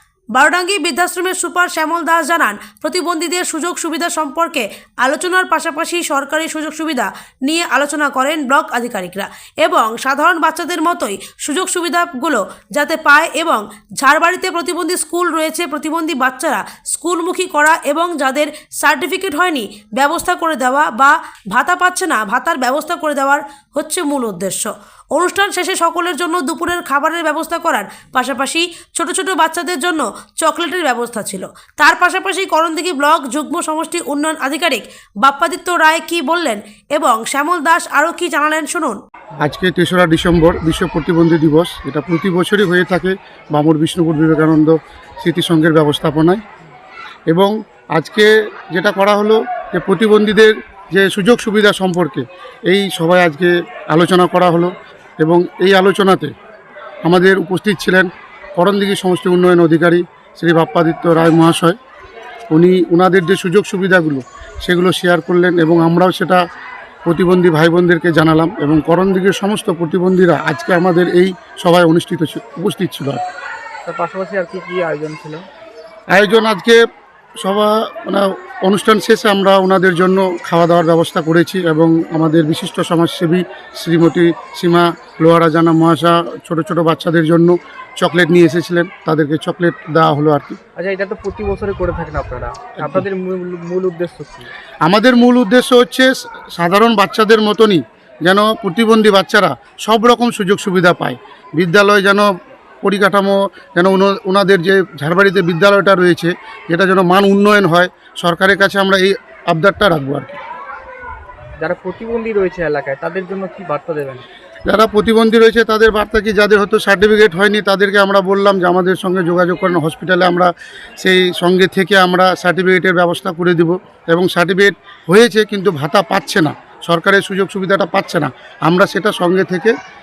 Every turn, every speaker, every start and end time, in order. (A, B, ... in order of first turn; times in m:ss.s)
0:00.3-0:39.0 A
0:39.4-0:46.4 B
0:47.3-0:56.3 B
0:57.1-1:01.8 B
1:02.5-1:06.4 B
1:07.1-1:13.2 B
1:13.9-1:15.5 C
1:16.1-1:16.8 B
1:17.4-1:30.6 B
1:30.8-1:34.5 C
1:34.8-1:42.3 B
1:42.8-1:50.4 B
1:51.6-1:54.3 C
1:54.7-2:09.7 B